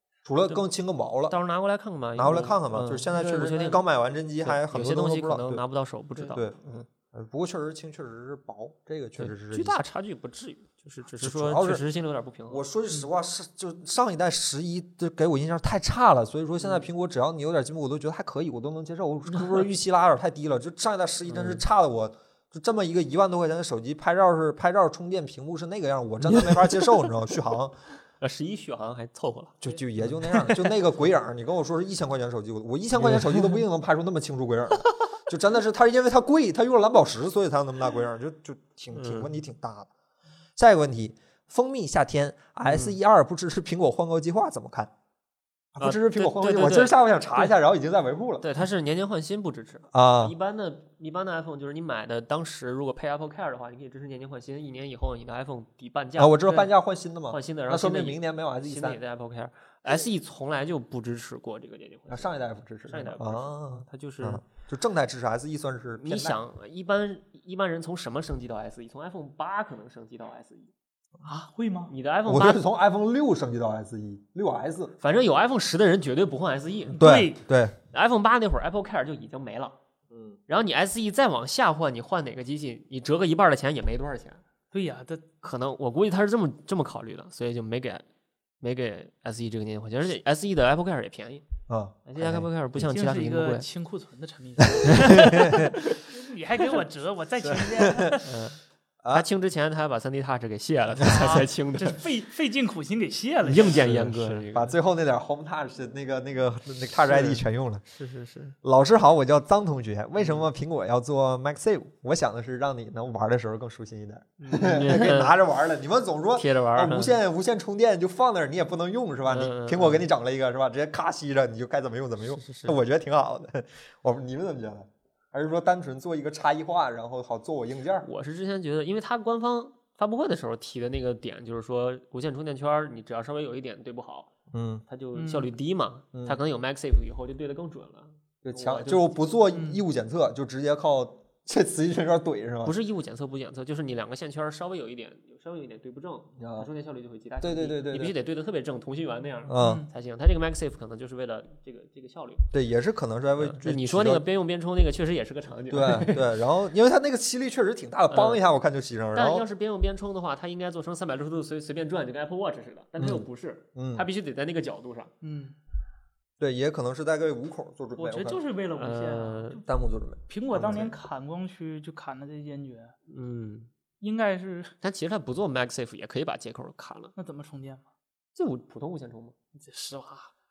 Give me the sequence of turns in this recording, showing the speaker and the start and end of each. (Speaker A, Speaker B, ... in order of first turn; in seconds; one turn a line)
Speaker A: 0.2-1.4
Speaker B: 1.3-3.8
Speaker A: 2.1-5.6
Speaker C: 3.1-3.5
Speaker B: 4.4-6.8
Speaker A: 6.3-9.8
Speaker B: 9.2-12.6
Speaker A: 11.2-11.8
Speaker A: 12.5-27.7
Speaker B: 21.3-21.6
Speaker B: 26.2-27.1
Speaker B: 28.2-30.7
Speaker A: 29.6-39.9
Speaker B: 33.0-33.6
Speaker B: 38.9-39.3
Speaker A: 40.6-44.9
Speaker B: 42.6-43.0
Speaker A: 45.7-48.5
Speaker B: 45.8-47.5
Speaker B: 48.4-56.7
Speaker A: 49.9-50.3
Speaker A: 56.2-59.0
Speaker B: 57.3-62.3
Speaker A: 62.1-66.4
Speaker B: 62.9-64.4
Speaker B: 66.0-70.7
Speaker C: 71.2-71.9
Speaker B: 71.9-72.6
Speaker A: 72.2-74.9
Speaker B: 75.0-77.0
Speaker C: 76.9-77.4
Speaker A: 77.0-77.7
Speaker B: 77.9-79.8
Speaker B: 80.5-84.4
Speaker C: 84.7-85.2
Speaker B: 85.4-88.0
Speaker B: 88.6-91.4
Speaker A: 91.7-92.8
Speaker B: 92.0-93.7
Speaker C: 92.8-98.4
Speaker B: 94.9-96.0
Speaker A: 95.0-95.7
Speaker A: 97.5-98.1
Speaker B: 98.2-98.6
Speaker B: 99.1-102.0
Speaker A: 101.0-101.3
Speaker C: 101.0-104.0
Speaker B: 103.4-104.7
Speaker A: 103.6-107.8
Speaker B: 107.1-108.5
Speaker A: 108.6-128.1
Speaker B: 110.2-110.4
Speaker B: 114.4-115.3
Speaker B: 116.3-117.1
Speaker B: 119.3-120.0
Speaker B: 122.2-122.8
Speaker B: 128.0-134.3
Speaker A: 134.5-134.8
Speaker B: 134.9-139.2
Speaker C: 135.1-135.5
Speaker A: 136.1-136.4
Speaker A: 138.4-142.8
Speaker C: 139.5-139.8
Speaker B: 142.6-152.4
Speaker A: 146.4-146.7
Speaker A: 147.4-148.1
Speaker A: 149.5-149.8
Speaker C: 149.5-149.9
Speaker A: 152.5-154.2
Speaker B: 153.4-156.3
Speaker A: 155.7-159.4
Speaker B: 158.1-158.4
Speaker B: 159.1-165.1
Speaker A: 163.0-164.1
Speaker C: 165.2-165.5
Speaker A: 166.4-168.4
Speaker C: 168.0-169.6
Speaker B: 168.8-169.6
Speaker A: 169.7-170.9
Speaker C: 170.3-172.9
Speaker B: 173.1-173.7
Speaker C: 174.0-174.7
Speaker B: 174.8-177.1
Speaker C: 177.2-177.8
Speaker B: 178.3-179.3
Speaker C: 179.6-180.3